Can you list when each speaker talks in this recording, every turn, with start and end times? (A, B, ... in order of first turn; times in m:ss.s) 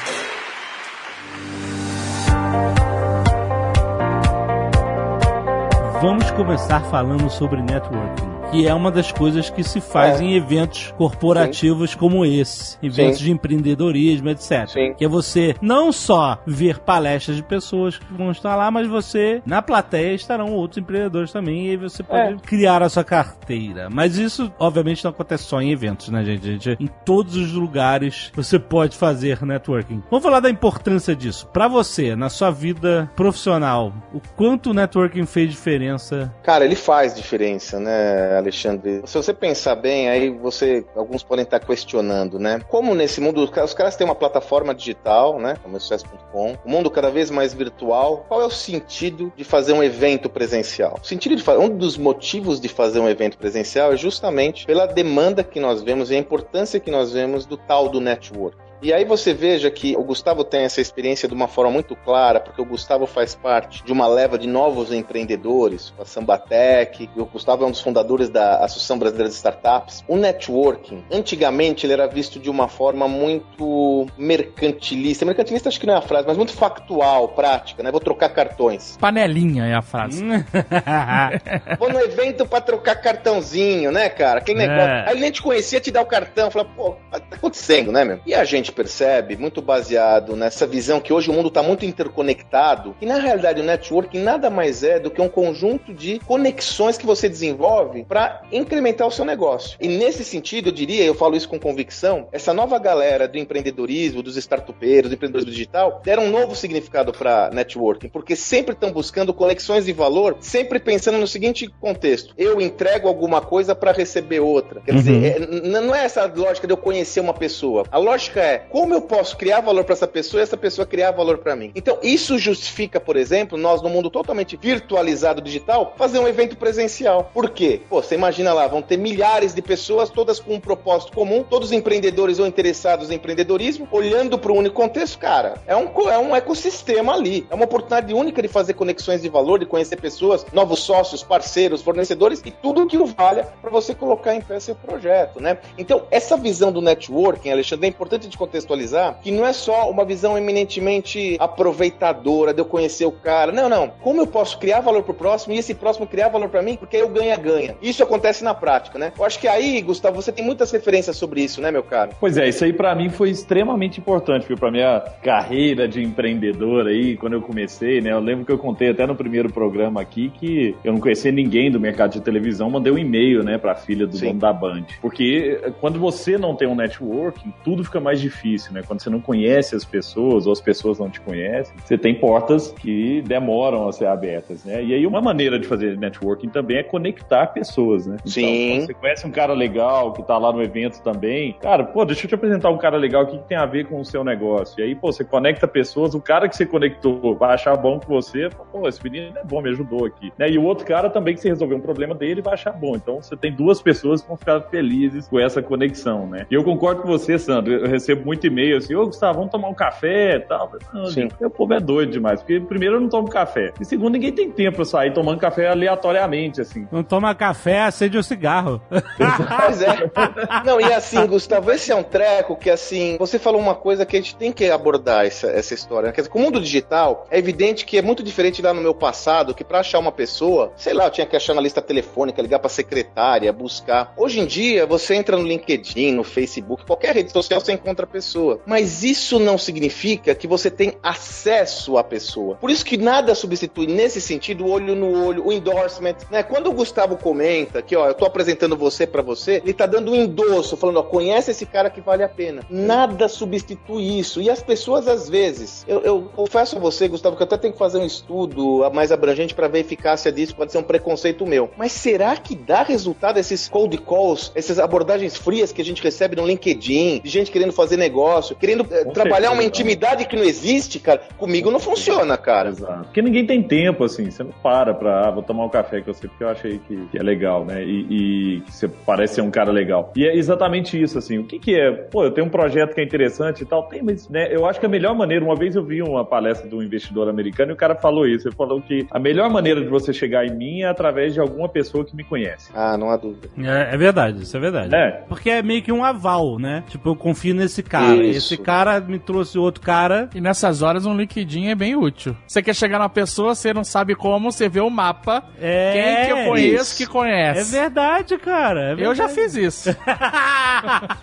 0:05.8-0:36.3 A
0:10.0-0:10.2 B
0:12.9-0:13.2 B
0:14.7-0:15.0 B
0:22.1-0:22.4 B
0:36.4-1:19.0 B
1:19.0-1:20.2 C
1:20.0-1:21.3 A
1:21.1-1:21.6 C
1:21.8-2:42.1 B
1:24.6-1:25.1 A
1:54.9-1:55.3 A
2:42.2-3:36.9 D
3:08.2-3:08.9 B
3:31.1-3:31.3 B
3:36.9-3:39.6 A
3:39.2-3:40.5 D
3:39.5-4:32.7 B
4:29.0-4:30.0 D
4:31.6-4:52.7 D
4:52.7-4:53.6 B
4:53.6-5:00.3 A
4:54.8-4:55.2 D
4:58.0-4:58.7 B
5:00.3-5:07.8 C
5:05.6-5:06.8 A
5:06.5-5:07.1 B
5:07.5-5:11.1 A
5:09.0-5:09.9 C